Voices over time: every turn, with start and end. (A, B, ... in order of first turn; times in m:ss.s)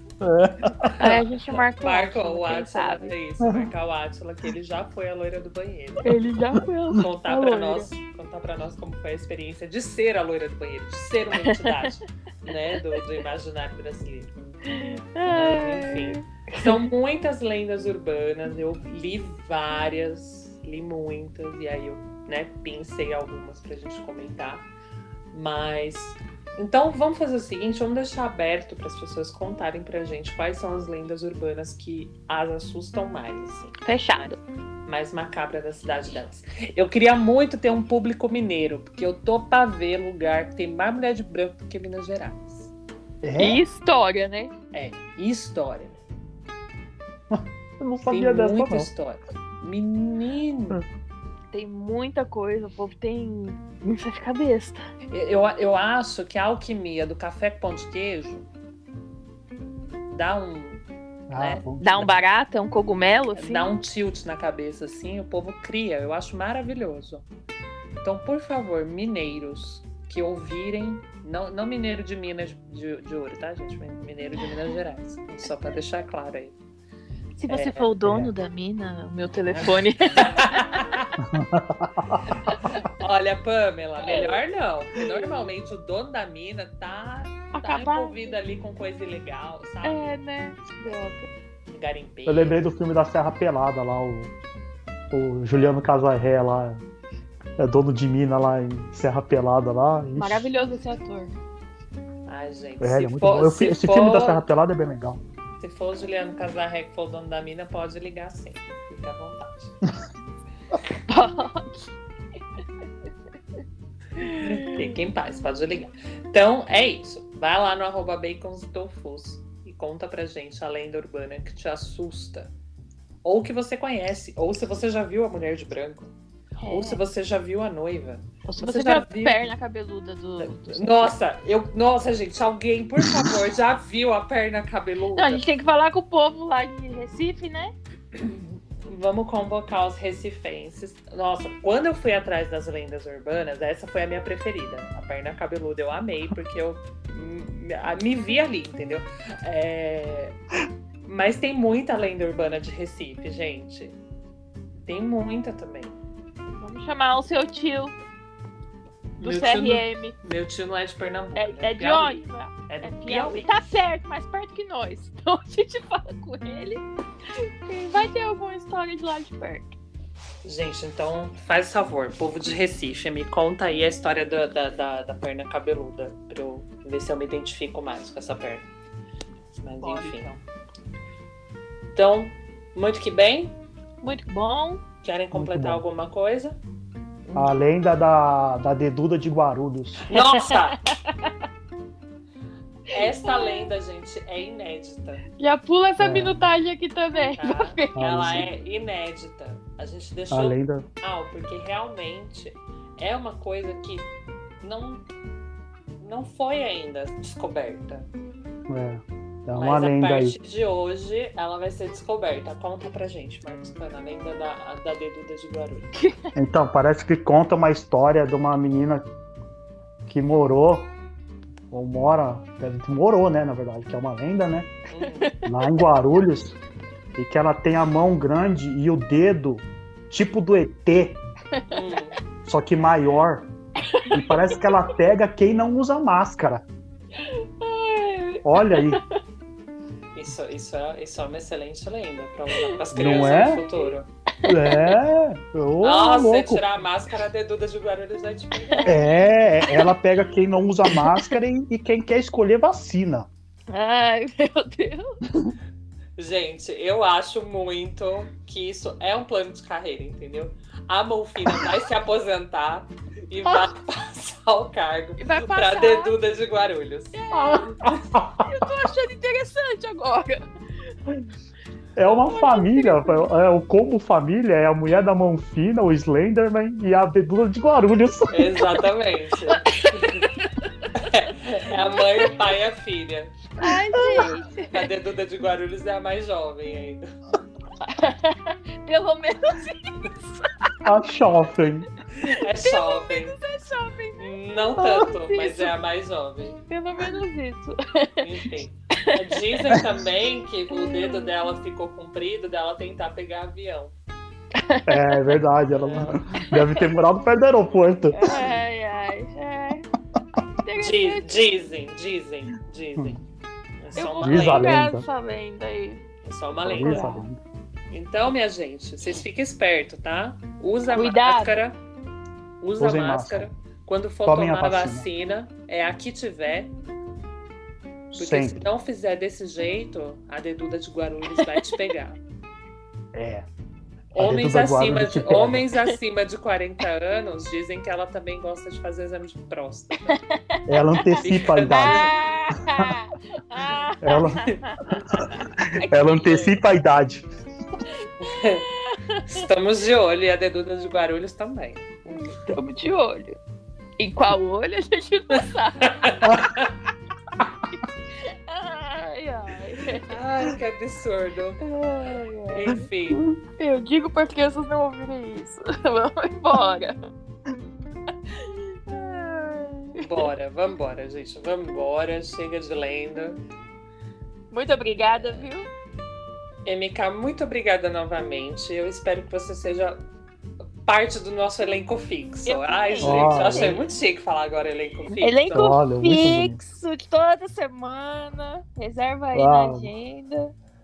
0:00.2-0:00.9 A
0:00.8-0:01.3 B
0:01.0-0:03.2 C
0:01.8-0:06.1 B
0:06.0-0:07.9 C
0:07.0-0:14.3 B
0:11.4-0:11.9 C
0:14.7-0:16.8 C
0:15.3-0:24.7 B
0:25.3-0:34.4 B
0:33.8-0:34.4 C
0:34.9-0:42.7 B
0:43.2-0:43.6 A
0:43.4-0:44.5 C
0:44.7-0:46.0 B
0:47.3-0:48.9 A
0:48.1-0:50.8 B
0:51.5-0:54.9 C
0:55.1-0:58.5 B
1:00.1-1:00.8 B
1:01.3-1:02.1 A
1:01.4-1:01.8 B
1:01.8-1:03.8 C
1:03.4-1:07.2 B
1:08.0-1:16.6 B
1:17.4-1:21.0 C
1:17.5-1:17.9 B
1:18.0-1:18.3 A
1:19.6-1:21.1 B
1:21.3-1:22.2 A
1:22.5-1:22.8 C
1:23.0-1:30.2 B
1:24.1-1:24.4 C
1:27.5-1:28.4 C
1:29.8-1:31.3 C
1:31.7-1:32.6 B
1:32.3-1:34.3 A
1:35.1-1:36.8 A
1:37.6-1:40.5 A
1:40.2-1:41.3 C
1:42.3-1:44.4 B
1:42.8-1:45.2 A
1:45.6-1:49.8 B
1:51.1-1:51.9 C
1:54.2-2:02.5 B
1:54.2-1:54.7 C
2:03.2-2:06.1 B
2:06.6-2:07.0 C
2:06.7-2:09.4 B
2:08.5-2:11.1 C
2:10.4-2:15.5 B
2:13.0-2:13.3 A
2:15.2-2:17.8 C
2:18.1-2:30.4 B
2:31.0-2:34.0 B
2:34.8-2:36.0 B
2:36.6-2:38.0 C
2:39.2-2:40.2 C
2:39.2-2:43.5 B
2:41.4-2:46.8 C
2:47.4-2:49.8 C
2:50.4-2:58.7 B
2:59.6-3:00.3 B
2:59.8-3:00.4 C
3:02.0-3:03.6 B
3:04.0-3:04.8 C
3:05.0-3:06.6 B
3:05.3-3:05.8 A
3:07.3-3:07.6 B
3:07.3-3:10.1 A
3:10.1-3:10.8 B
3:10.1-3:11.3 C
3:12.9-3:15.2 B
3:13.0-3:13.6 C
3:15.4-3:18.0 C
3:16.0-3:16.4 A
3:17.4-3:24.1 B
3:18.0-3:18.5 A
3:20.3-3:20.9 A
3:24.6-3:25.0 B
3:26.0-3:28.1 B
3:28.7-3:30.4 A
3:29.6-3:35.9 B
3:36.3-3:39.1 A
3:40.1-3:40.9 A
3:41.7-3:44.7 A
3:44.9-3:45.4 B
3:45.0-3:45.5 C
3:45.4-3:46.6 A
3:47.2-3:51.2 A
3:51.5-3:51.8 C
3:51.7-3:52.2 B
3:52.4-3:53.5 A
3:53.8-3:54.6 C
3:54.1-3:56.6 A
3:57.2-3:59.1 C
3:58.4-3:59.0 A
4:00.2-4:04.1 B
4:03.0-4:03.6 A
4:03.1-4:03.8 C
4:04.4-4:05.0 C
4:04.4-4:06.6 A
4:05.8-4:09.1 B
4:08.7-4:09.0 C
4:08.9-4:13.3 A
4:09.6-4:09.9 C
4:10.9-4:11.3 C
4:13.7-4:15.2 C
4:16.2-4:28.0 B
4:25.2-4:26.1 C
4:27.1-4:27.9 C
4:27.8-4:28.4 A
4:28.4-4:31.2 C
4:32.0-4:38.7 A
4:32.1-4:33.3 C
4:38.3-4:40.3 B
4:39.5-4:40.9 C
4:40.9-4:43.4 B
4:41.8-4:42.4 C
4:43.6-4:44.9 C
4:44.0-4:44.3 A
4:44.7-4:47.0 B
4:47.8-4:50.9 C
4:50.8-4:51.9 A
4:52.2-4:55.7 C
4:52.2-4:53.4 B
4:54.2-4:56.6 B
4:56.7-4:58.3 C
4:58.2-5:03.9 B
5:00.7-5:01.3 C
5:04.6-5:05.4 C
5:04.9-5:08.4 A
5:05.7-5:06.3 B
5:06.5-5:07.0 C
5:08.2-5:09.8 C
5:10.6-5:11.4 C
5:10.8-5:13.2 B
5:13.8-5:14.8 B
5:14.0-5:16.0 C
5:14.2-5:15.0 A
5:16.2-5:17.1 B
5:16.6-5:17.2 C
5:16.7-5:17.4 A
5:17.9-5:21.8 B
5:20.9-5:21.6 C
5:22.6-5:26.7 B
5:22.8-5:23.5 A
5:24.3-5:25.1 A
5:28.1-5:28.6 A
5:28.2-5:32.2 B
5:31.4-5:31.8 C
5:33.1-5:33.5 A
5:34.1-5:40.2 B
5:34.2-5:35.6 A
5:40.1-5:44.8 C
5:40.7-5:42.9 A
5:41.2-5:42.1 B
5:44.0-5:44.5 A
5:45.8-5:46.6 C
5:45.8-5:47.3 A
5:48.2-5:48.7 B
5:48.8-5:49.5 C
5:49.3-5:52.3 B
5:52.2-5:53.4 C
5:54.0-5:56.3 C
5:55.8-5:56.7 B
5:56.2-5:56.6 A
5:58.2-6:00.2 C
6:00.1-6:01.6 B
6:01.6-6:02.7 C
6:02.5-6:03.2 B
6:03.1-6:03.4 A
6:03.6-6:07.0 C
6:08.3-6:10.2 C
6:10.0-6:13.4 B
6:14.5-6:15.7 C
6:15.2-6:15.5 B
6:16.7-6:20.0 B
6:20.8-6:25.8 B
6:22.5-6:23.8 C
6:23.0-6:23.8 A
6:25.2-6:30.5 C
6:25.5-6:26.6 A
6:29.3-6:29.9 A